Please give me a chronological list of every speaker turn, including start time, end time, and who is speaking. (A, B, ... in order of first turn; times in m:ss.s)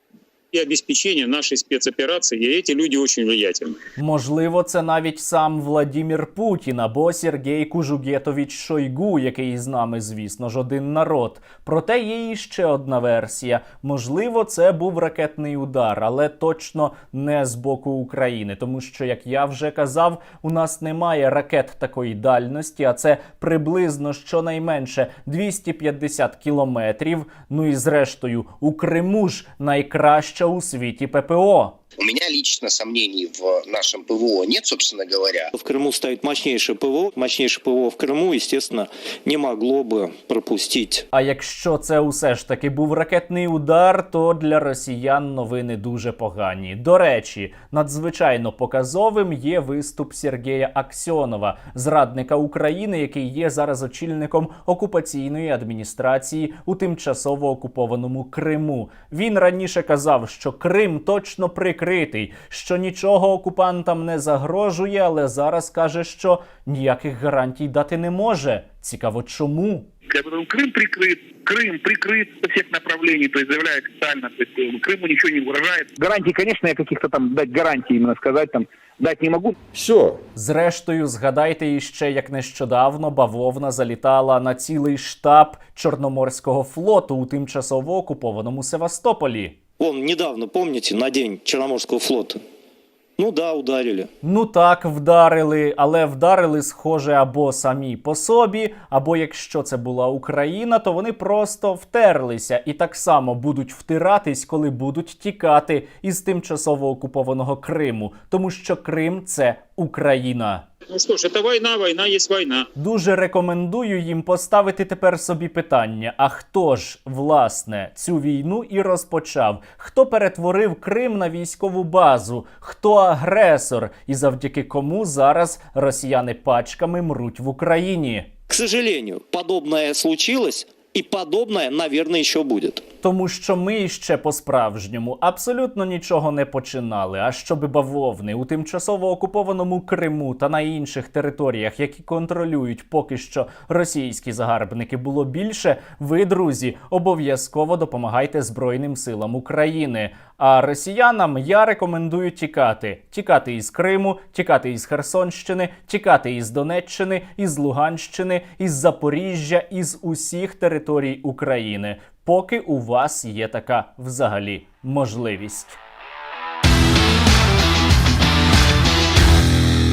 0:00.5-0:03.8 A
0:04.0-0:31.8 B
0:32.0-0:35.5 C
0:35.5-0:41.0 D
0:41.1-1:09.9 B
1:10.1-1:19.5 E
1:20.3-1:29.6 B
1:29.8-1:32.4 D
1:33.2-1:34.1 D
1:34.2-1:50.6 B
1:50.9-1:52.7 A
1:52.8-2:08.3 B
2:08.5-2:12.8 D
2:13.0-2:45.8 B